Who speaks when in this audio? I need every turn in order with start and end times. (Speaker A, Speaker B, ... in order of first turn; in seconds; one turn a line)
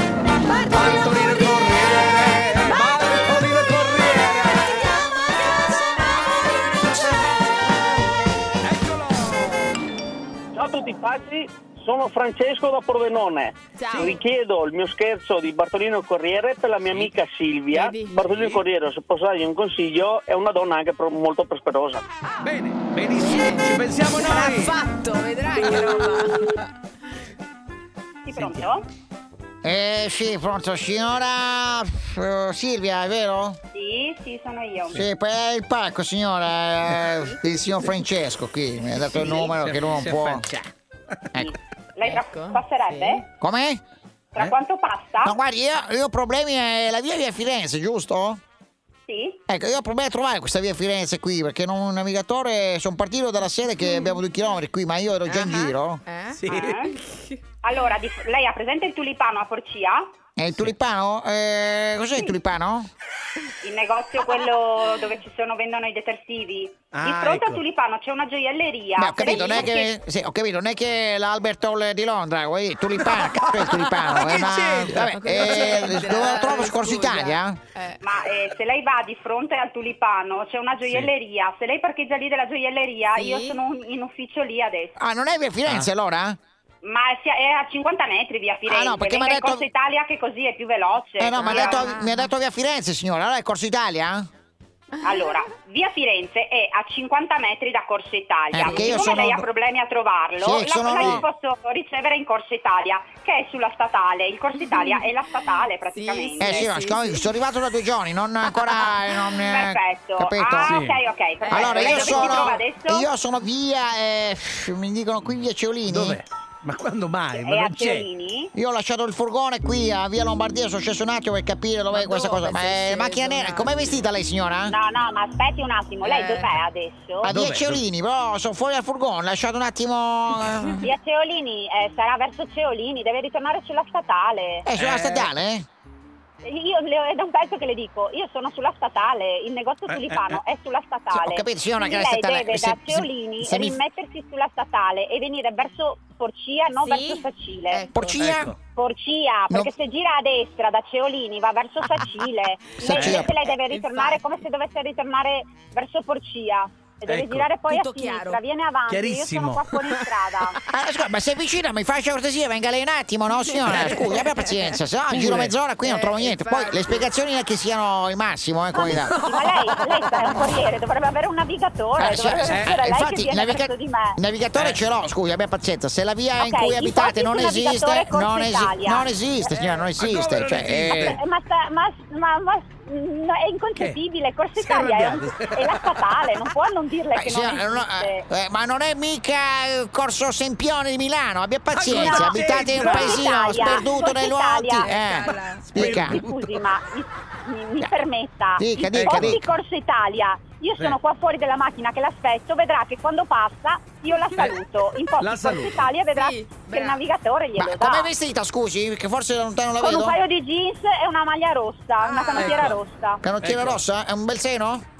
Speaker A: 0.5-1.0
Speaker B: 0.7-4.9
Speaker B: 8.6-9.6
Speaker C: 10.6-22.0
Speaker A: 13.8-14.2
Speaker A: 17.7-18.2
Speaker B: 18.4-18.6
Speaker B: 22.4-24.8
Speaker A: 23.2-26.6
Speaker B: 25.6-26.0
Speaker D: 28.2-28.9
Speaker B: 28.4-28.6
Speaker E: 29.6-33.6
Speaker D: 33.7-35.0
Speaker E: 34.9-40.5
Speaker B: 39.0-41.2
Speaker D: 41.4-43.2
Speaker A: 42.1-43.2
Speaker E: 43.4-43.8
Speaker D: 44.3-45.4
Speaker E: 45.2-48.4
Speaker D: 49.1-49.4
Speaker E: 49.5-56.0
Speaker A: 55.3-57.4
Speaker B: 56.3-56.9
Speaker D: 56.5-56.9
Speaker D: 57.6-60.0
Speaker E: 60.4-62.9
Speaker D: 63.6-69.9
Speaker B: 66.9-67.6
Speaker E: 69.0-77.6
Speaker B: 73.2-76.1
Speaker A: 75.0-78.0
Speaker D: 78.0-85.0
Speaker B: 80.8-81.1
Speaker A: 83.2-83.6
Speaker E: 85.0-86.4
Speaker D: 86.8-92.0
Speaker E: 88.7-89.7
Speaker E: 91.2-94.3
Speaker A: 91.4-92.3
Speaker A: 95.0-95.5
Speaker D: 95.0-106.7
Speaker E: 98.5-99.5
Speaker A: 98.7-99.1
Speaker E: 100.4-101.3
Speaker A: 104.6-105.0
Speaker A: 105.9-107.2
Speaker E: 106.4-110.8
Speaker D: 109.4-113.1
Speaker B: 110.7-111.0
Speaker A: 111.4-112.6
Speaker E: 111.5-116.2
Speaker B: 115.9-118.1
Speaker D: 117.3-118.5
Speaker E: 118.5-124.8
Speaker A: 121.9-123.9
Speaker D: 124.7-127.3
Speaker A: 126.0-126.6
Speaker E: 127.2-130.8
Speaker B: 127.2-127.8
Speaker D: 130.8-134.7
Speaker E: 134.7-135.7
Speaker B: 134.8-135.3
Speaker D: 136.4-147.9
Speaker B: 139.9-140.4
Speaker E: 141.1-143.8
Speaker A: 146.8-148.2
Speaker E: 147.9-148.5
Speaker B: 148.2-148.6
Speaker D: 148.8-160.6
Speaker B: 152.9-153.3
Speaker E: 152.9-153.3
Speaker A: 153.4-154.2
Speaker B: 157.1-157.5
Speaker A: 157.7-158.4
Speaker B: 158.9-159.7
Speaker E: 160.7-169.2
Speaker B: 163.7-164.2
Speaker B: 165.1-165.6
Speaker A: 165.8-167.1
Speaker D: 168.7-174.2
Speaker B: 168.9-170.3
Speaker E: 172.0-181.2
Speaker B: 172.5-172.8
Speaker B: 174.6-174.8
Speaker D: 176.4-179.1
Speaker B: 179.5-181.2
Speaker D: 180.8-188.3
Speaker B: 184.6-186.5
Speaker E: 187.1-196.2
Speaker B: 191.7-193.2
Speaker D: 191.9-194.9
Speaker A: 194.8-195.7
Speaker B: 195.6-196.6
Speaker D: 195.8-208.1
Speaker E: 198.6-199.4
Speaker B: 198.9-199.4
Speaker B: 205.2-205.9
Speaker A: 206.2-207.0
Speaker E: 207.6-210.2
Speaker D: 209.8-213.2
Speaker A: 212.0-212.7
Speaker B: 212.3-212.8
Speaker E: 213.2-214.8
Speaker B: 213.4-213.8